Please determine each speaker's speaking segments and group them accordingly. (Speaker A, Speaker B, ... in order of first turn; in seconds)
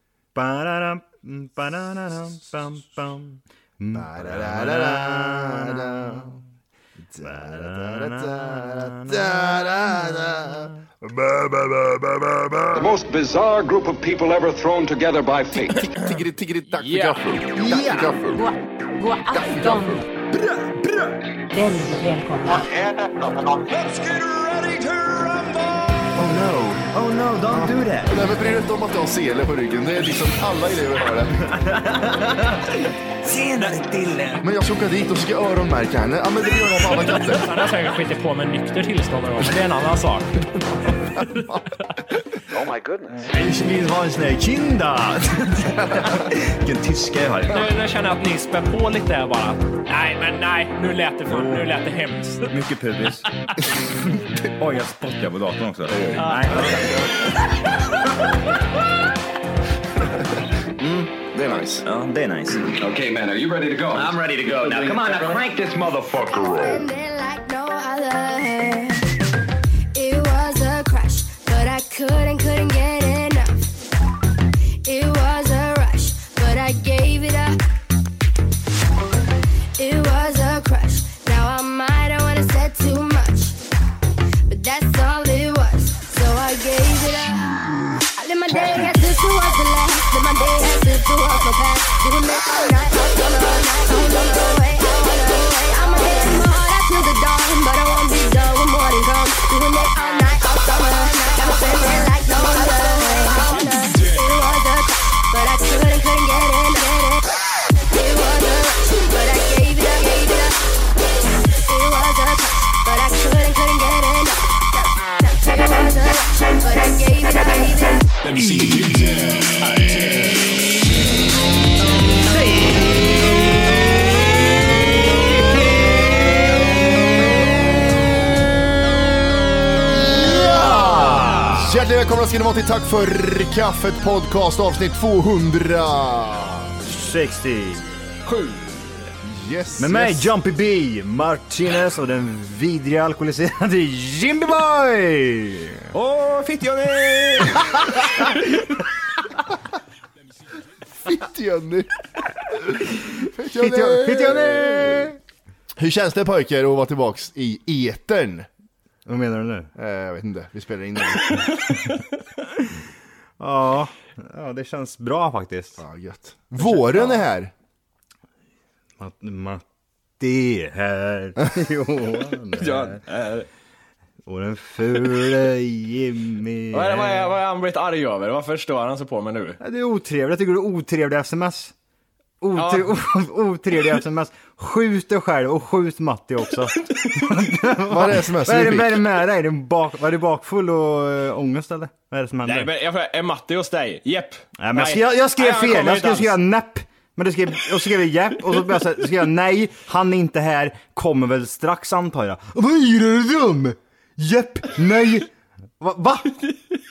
Speaker A: 0.3-6.3, 7.2-9.6, 10.4-10.7, 26.8-28.2, 31.4-34.4, 43.2-47.7, 51.3-51.7, 52.5-53.3, 54.4-56.9, 60.8-62.7, 130.0-131.7, 136.8-137.8, 139.8-145.8, 147.9-148.3, 153.5-155.2, 159.1-159.7, 163.4-165.8, 169.0-169.6, 170.2-173.0, 174.2-177.3, 179.6-181.7, 182.4-192.7, 194.6-205.3, 205.8-206.4
Speaker B: 3.9-6.4, 7.1-12.9, 15.9-18.4, 19.3-20.0, 26.1-26.8, 27.5-31.5, 34.4-37.5, 61.3-61.8, 130.1-136.7, 139.2-140.3, 151.0-151.9, 153.3-155.1, 155.8-158.5, 159.8-161.4, 165.8-167.5, 187.9-189.0
Speaker C: 12.7-15.9, 22.4-25.4, 42.5-43.2, 62.7-66.9
Speaker D: 16.8-17.2, 37.5-37.9, 39.4-39.6, 51.3-51.7, 118.2-120.3, 138.2-138.7, 145.9-148.4, 172.6-173.5, 176.7-179.6, 182.5-182.9, 192.4-196.3
Speaker E: 18.0-20.1, 21.5-22.7
Speaker F: 37.5-40.3, 47.5-52.4
Speaker G: 66.3-69.0, 69.9-73.6, 74.8-77.6, 79.8-83.6, 84.5-107.3, 107.9-110.6, 111.5-118.1